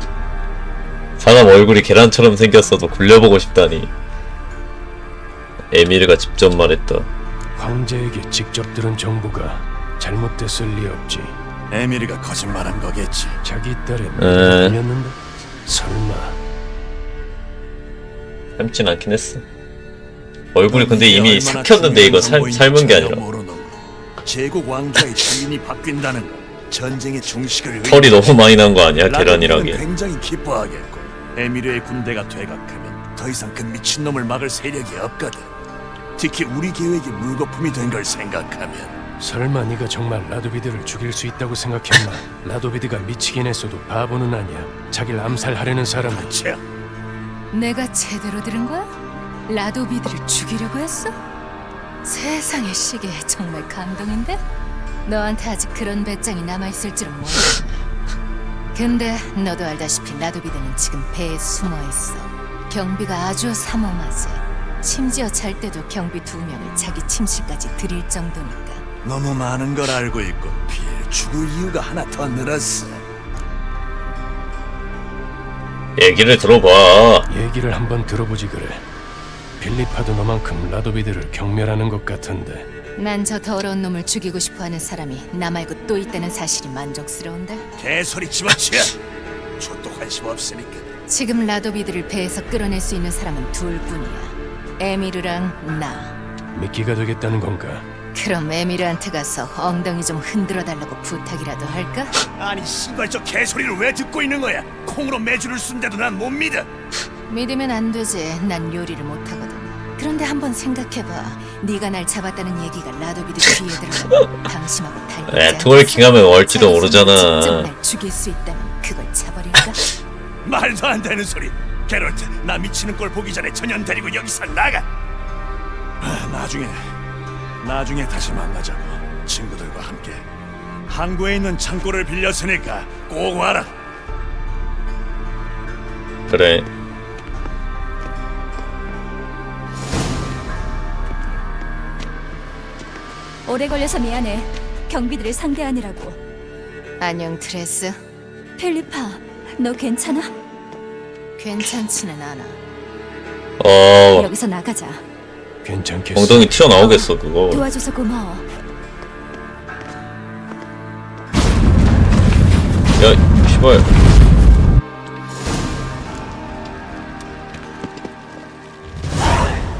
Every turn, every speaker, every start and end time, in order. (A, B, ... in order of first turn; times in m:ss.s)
0:01.2-0:03.9 A
0:05.7-0:07.1 A
0:07.6-0:11.4 B
0:11.7-0:13.4 C
0:13.4-0:16.4 B
0:14.2-0:14.8 A
0:18.6-0:19.4 A
0:20.5-0:23.2 A
0:20.7-0:28.5 C
0:27.8-0:29.8 A
0:29.0-0:35.5 C
0:36.2-0:39.0 C
0:39.2-0:46.3 B
0:46.1-0:46.6 C
0:47.5-0:48.9 D
0:49.5-0:51.2 D
0:52.0-0:54.4 D
0:55.0-0:57.8 D
0:58.7-1:08.8 D
1:09.0-1:13.0 C
1:16.0-1:17.3 A
1:17.3-1:18.8 B
1:19.6-1:22.7 B
1:23.0-1:27.7 D
1:27.8-1:29.0 C
1:29.6-1:30.8 C
1:31.1-1:36.1 D
1:36.5-1:37.9 B
1:38.1-1:42.2 D
1:42.3-1:46.7 C
1:47.3-1:59.8 D
1:55.3-1:57.7 A
2:00.4-2:04.9 C
2:06.0-2:06.9 C
2:07.6-2:10.2 C
2:10.9-2:13.8 C
2:16.3-2:16.7 A
2:23.4-2:26.2 E
2:27.0-2:28.0 D
2:28.6-2:30.3 E
2:31.4-2:32.6 D
2:33.6-2:34.3 A
2:34.1-2:35.0 E
2:35.6-2:36.5 B
2:36.1-2:37.6 A
2:36.8-2:38.4 E
2:43.0-2:43.9 A